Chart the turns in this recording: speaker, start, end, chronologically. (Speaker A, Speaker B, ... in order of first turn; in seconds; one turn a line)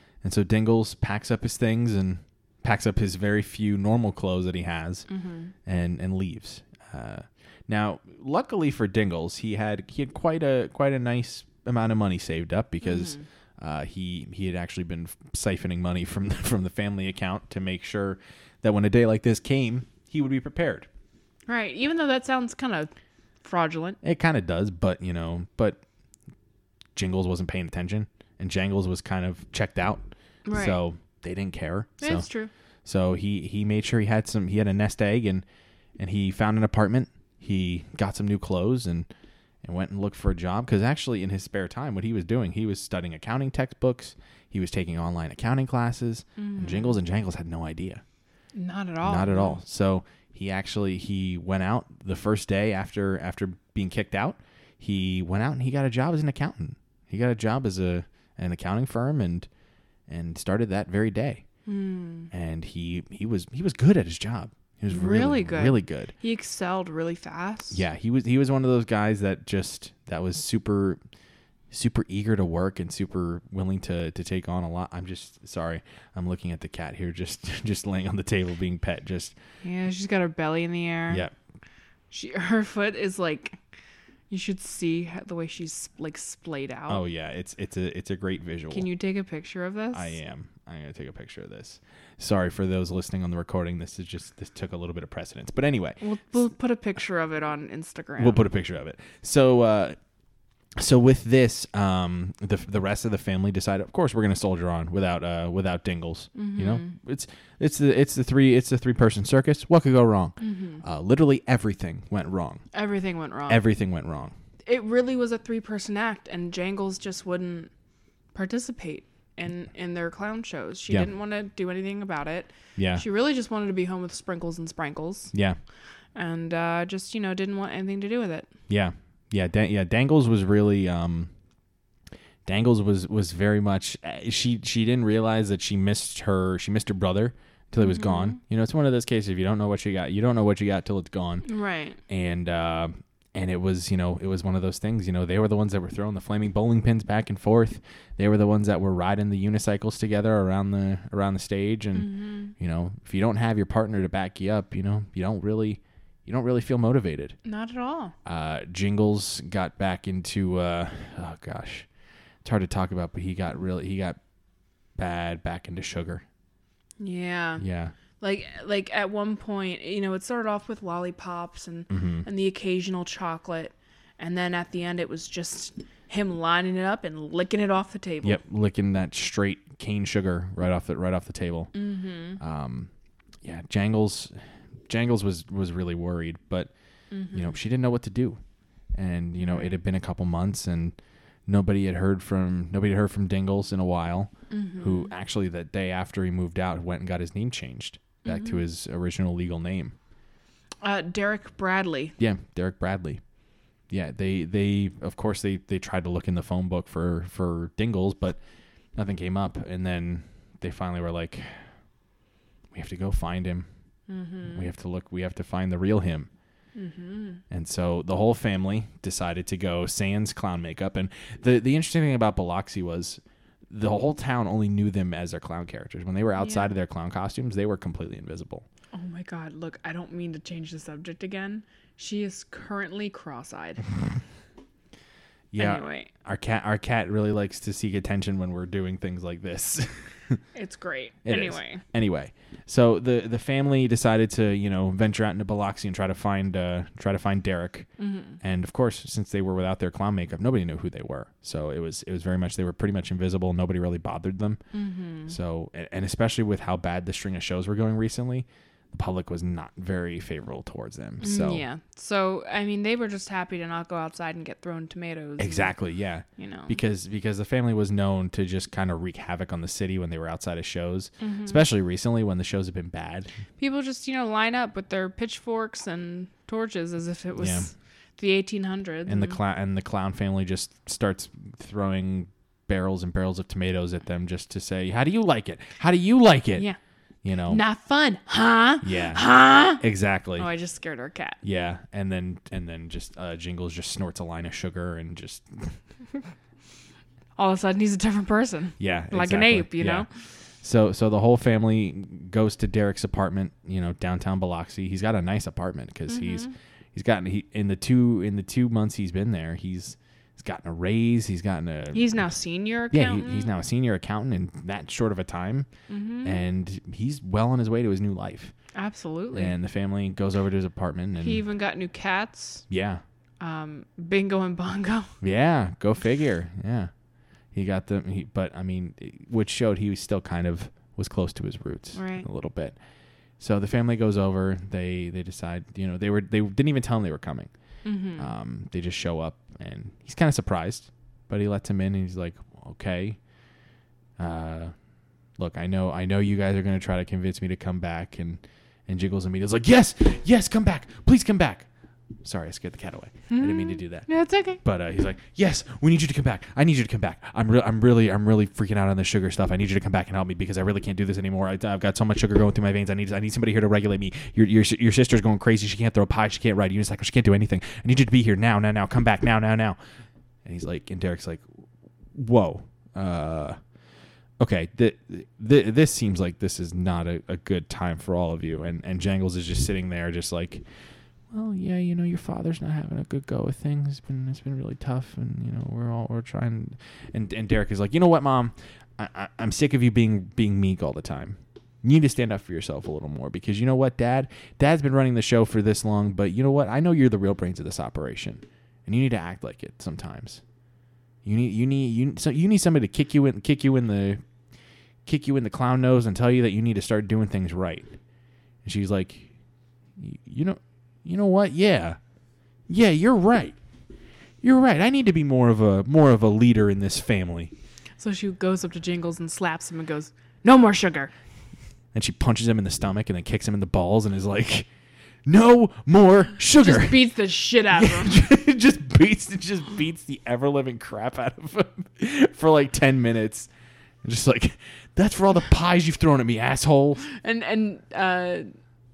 Speaker A: 0.2-5.1
Speaker B: 5.1-5.5
Speaker A: 5.7-20.9
Speaker B: 12.8-13.2
Speaker B: 21.5-22.9
Speaker B: 23.4-24.0
Speaker A: 24.0-25.8
Speaker A: 26.9-32.2
Speaker B: 30.4-30.8
Speaker B: 32.0-32.5
Speaker A: 32.8-35.4
Speaker A: 36.0-39.1
Speaker A: 39.6-48.0
Speaker B: 46.4-47.0
Speaker B: 48.5-49.6
Speaker A: 49.0-59.5
Speaker A: 60.1-61.4
Speaker B: 61.6-62.3
Speaker A: 62.3-66.1
Speaker B: 64.9-67.8
Speaker A: 67.7-71.0
Speaker A: 71.7-79.3
Speaker B: 79.6-81.2
Speaker B: 82.1-83.6
Speaker B: 84.3-87.0
Speaker A: 86.9-88.9
Speaker B: 88.7-90.2
Speaker A: 89.9-96.0
Speaker B: 96.0-98.4
Speaker A: 98.2-100.0
Speaker A: 100.8-112.6
Speaker B: 106.3-107.0
Speaker B: 110.4-110.8
Speaker B: 112.7-113.6
Speaker A: 113.5-114.3
Speaker B: 114.7-117.7
Speaker B: 118.3-125.3
Speaker A: 122.8-123.0
Speaker A: 125.3-125.6
Speaker B: 126.1-128.5
Speaker A: 128.7-131.3
Speaker A: 132.4-141.4
Speaker B: 137.8-138.4
Speaker B: 141.4-142.0
Speaker A: 142.1-157.4
Speaker B: 151.9-152.5
Speaker B: 157.4-158.1
Speaker A: 158.2-161.9
Speaker A: 162.4-164.2
Speaker A: 165.0-166.2
Speaker B: 167.0-167.6
Speaker A: 167.6-167.9
Speaker B: 168.2-178.4
Speaker A: 171.9-172.2
Speaker A: 178.2-181.7
Speaker B: 181.7-182.4
Speaker A: 182.4-182.9
Speaker A: 183.4-184.3
Speaker A: 184.9-186.7
Speaker B: 187.1-187.6
Speaker A: 187.3-188.4
Speaker A: 188.9-190.9
Speaker B: 189.4-189.8
Speaker A: 191.5-199.9
Speaker B: 194.5-195.1
Speaker B: 198.2-198.6
Speaker B: 200.8-202.1
Speaker A: 202.2-203.2
Speaker A: 203.9-208.4
Speaker A: 208.9-211.7
Speaker A: 212.7-213.7
Speaker B: 214.1-214.7
Speaker A: 214.4-216.3
Speaker B: 216.7-217.4
Speaker A: 217.5-228.7
Speaker B: 226.4-226.7
Speaker B: 228.9-233.9
Speaker A: 235.5-240.4
Speaker B: 235.6-236.1
Speaker B: 240.5-241.8
Speaker A: 241.2-247.9
Speaker B: 248.0-248.4
Speaker A: 248.4-254.6
Speaker B: 254.7-255.4
Speaker A: 255.3-261.6
Speaker B: 261.2-265.7
Speaker A: 265.4-273.3
Speaker B: 266.4-266.8
Speaker B: 271.2-271.6
Speaker B: 273.6-279.4
Speaker A: 277.4-277.7
Speaker A: 279.1-286.7
Speaker A: 287.2-287.6
Speaker B: 287.5-289.8
Speaker A: 288.8-290.5
Speaker B: 290.4-291.4
Speaker A: 291.4-295.8
Speaker B: 297.4-300.1
Speaker A: 298.8-300.1
Speaker A: 300.6-312.1
Speaker B: 306.1-306.5
Speaker B: 311.9-313.5
Speaker A: 312.9-315.7
Speaker B: 315.9-316.4
Speaker A: 316.2-318.5
Speaker B: 318.7-319.5
Speaker A: 319.3-321.4
Speaker B: 321.2-322.6
Speaker A: 322.7-323.0
Speaker B: 323.4-325.2
Speaker A: 325.2-326.9
Speaker A: 327.5-332.8
Speaker B: 331.9-332.3
Speaker A: 333.4-337.5
Speaker B: 337.8-338.3
Speaker A: 338.2-343.2
Speaker A: 344.2-344.7
Speaker A: 345.4-351.7
Speaker A: 352.2-354.1
Speaker B: 353.3-354.6
Speaker A: 354.6-369.8
Speaker A: 370.4-371.4
Speaker A: 372.1-373.6
Speaker A: 374.4-380.6
Speaker A: 381.3-400.4
Speaker A: 401.2-404.2
Speaker A: 405.1-407.9
Speaker A: 408.6-409.3
Speaker A: 410.0-412.0
Speaker A: 412.7-413.6
Speaker A: 414.4-417.5
Speaker B: 418.0-421.1
Speaker A: 421.9-424.7
Speaker A: 425.2-427.1
Speaker B: 426.6-428.2
Speaker A: 427.7-433.5
Speaker A: 434.0-437.0
Speaker B: 437.0-438.5